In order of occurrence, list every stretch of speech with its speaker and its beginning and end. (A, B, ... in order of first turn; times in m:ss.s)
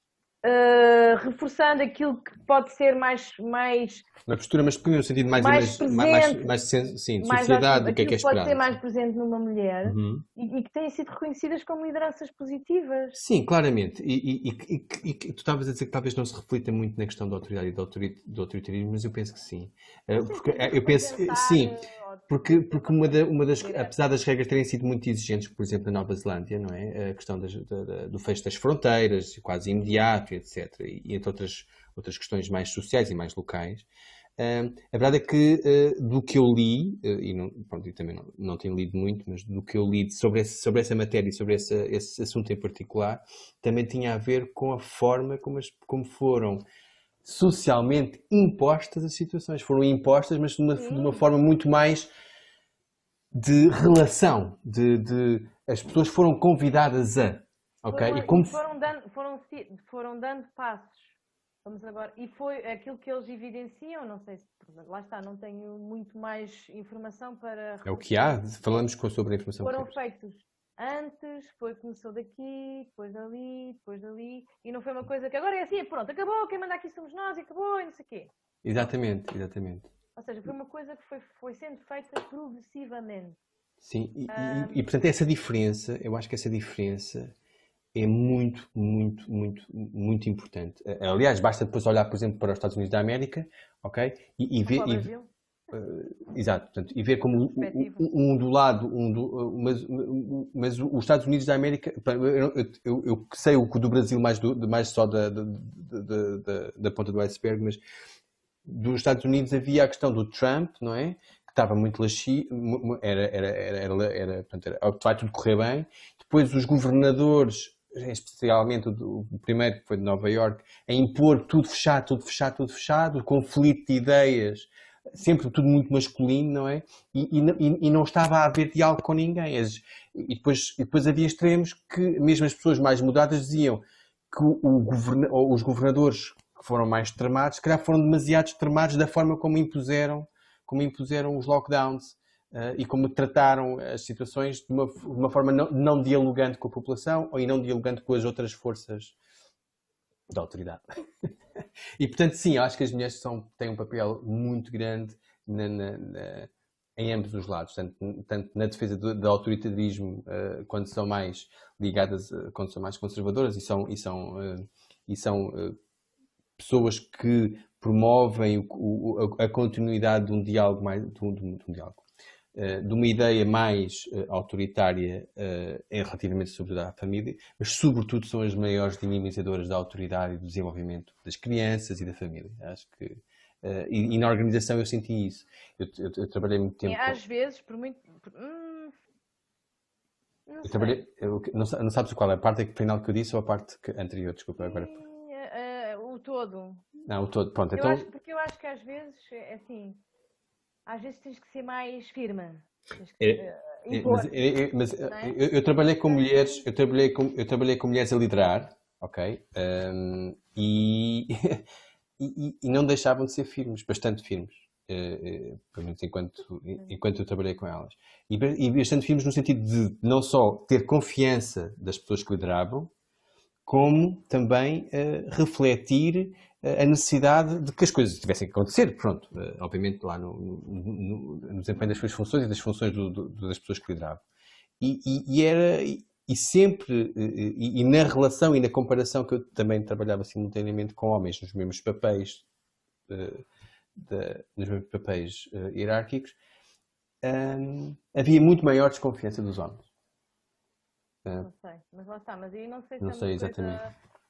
0:00.4-0:04.1 A
0:04.3-0:08.8 B
0:05.4-0:06.5 A
0:07.2-0:13.2 A
0:09.8-0:10.2 B
0:13.2-0:46.6 B
0:20.2-0:24.0 A
0:47.2-0:52.1 B
0:50.8-0:51.2 A
0:53.3-0:58.6 B
0:57.9-1:01.1 A
1:01.6-1:08.8 A
1:07.8-1:10.0 B
1:09.6-1:18.9 A
1:18.6-1:19.9 B
1:20.2-1:23.4 A
1:23.8-1:27.3 B
1:24.3-1:24.8 A
1:27.9-1:35.1 B
1:34.6-1:35.3 A
1:35.7-1:47.8 B
1:37.3-1:38.0 A
1:48.6-2:29.2 B
2:30.3-2:31.3 B
2:32.0-2:45.8 B
2:46.6-2:52.0 B
2:52.6-3:07.2 B
3:06.8-3:08.9 A
3:10.5-3:11.0 A
3:10.6-3:14.9 B
3:14.6-3:16.8 A
3:17.1-3:18.1 B
3:17.8-3:20.0 A
3:20.9-3:24.4 A
3:23.2-3:31.6 B
3:25.0-3:26.7 A
3:32.2-3:42.9 B
3:43.7-3:54.2 B
3:54.8-4:02.4 B
4:03.1-4:03.4 B
4:04.0-4:06.4 B
4:07.2-4:09.9 B
4:11.4-4:14.0 A
4:13.0-4:13.8 B